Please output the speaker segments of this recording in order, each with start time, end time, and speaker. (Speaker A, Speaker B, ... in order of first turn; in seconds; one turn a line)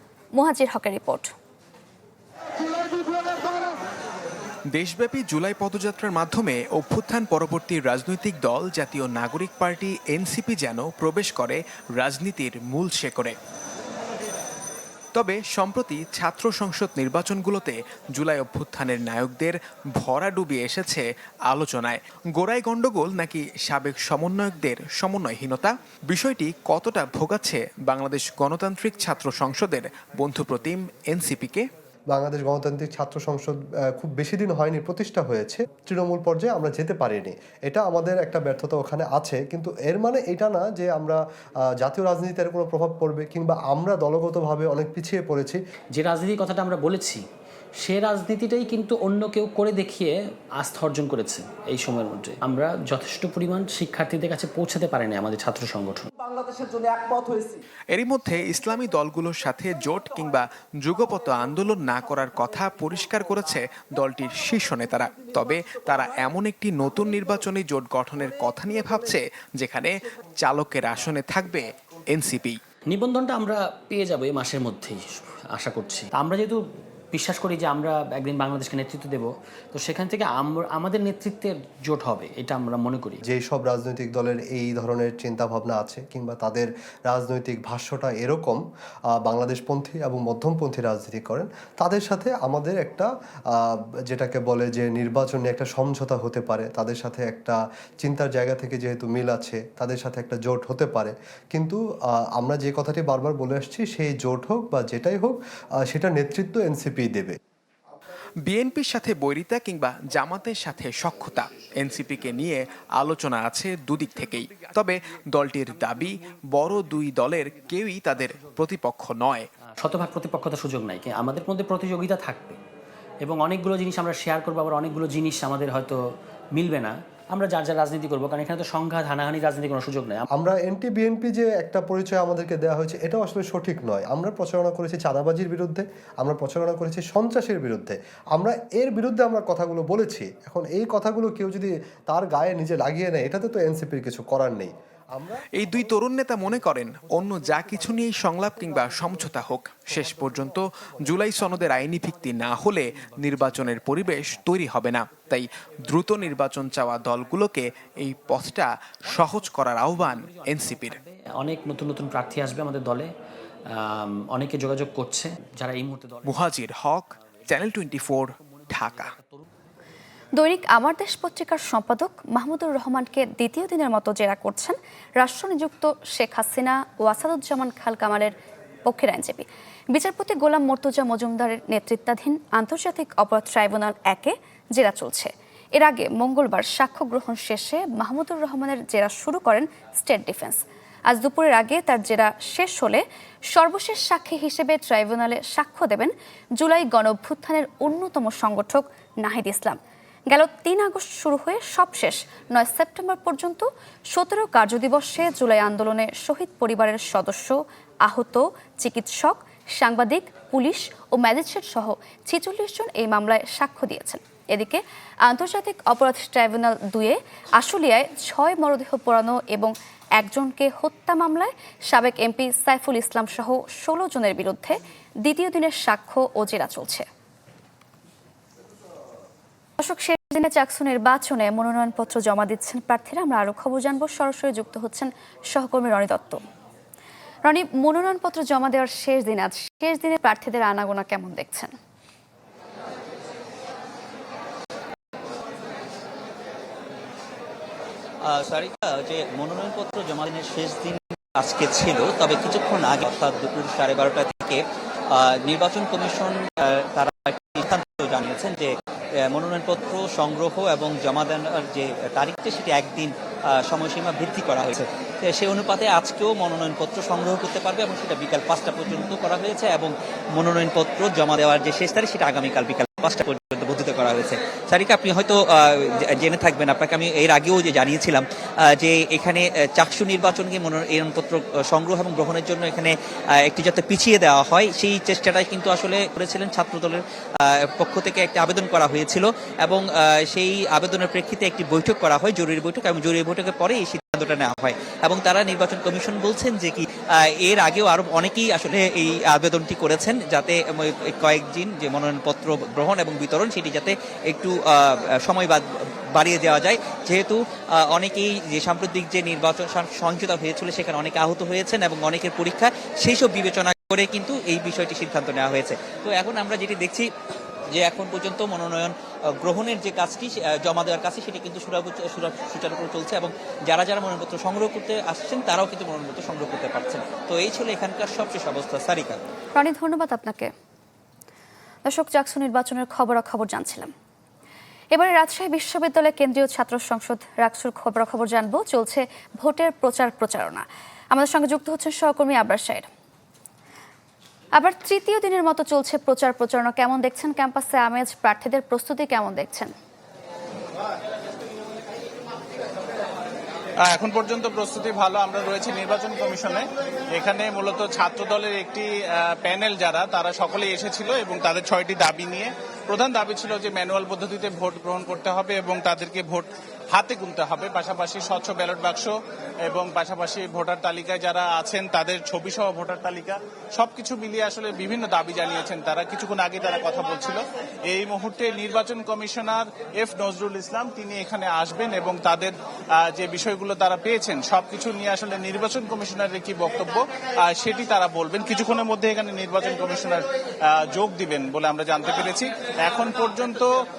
Speaker A: 0.3-1.3
Speaker B: 4.7-13.3
Speaker B: 15.1-31.7
Speaker C: 32.1-41.2
Speaker C: 41.8-45.6
Speaker D: 45.9-47.2
Speaker D: 47.8-56.1
Speaker B: 57.9-72.6
Speaker D: 72.9-83.2
Speaker C: 83.3-88.6
Speaker C: 89.2-101.8
Speaker C: 102.3-107.3
Speaker B: 108.4-119.5
Speaker D: 119.8-122.6
Speaker D: 123.2-126.0
Speaker D: 126.5-130.2
Speaker C: 130.3-145.4
Speaker B: 145.6-161.0
Speaker D: 152.2-153.9
Speaker D: 159.1-163.1
Speaker D: 163.8-166.6
Speaker B: 166.2-169.1
Speaker D: 167.2-169.5
Speaker A: 170.4-178.3
Speaker A: 178.8-193.0
Speaker A: 193.5-199.8
Speaker A: 200.3-227.1
Speaker A: 229.8-236.4
Speaker A: 237.4-241.7
Speaker E: 248.2-258.7
Speaker E: 259.3-317.1
Speaker E: 317.7-329.2
Speaker A: 329.6-330.5
Speaker A: 331.9-333.9
Speaker A: 334.9-342.9
Speaker A: 344.6-349.7
Speaker F: 353.8-369.1
Speaker F: 369.7-393.7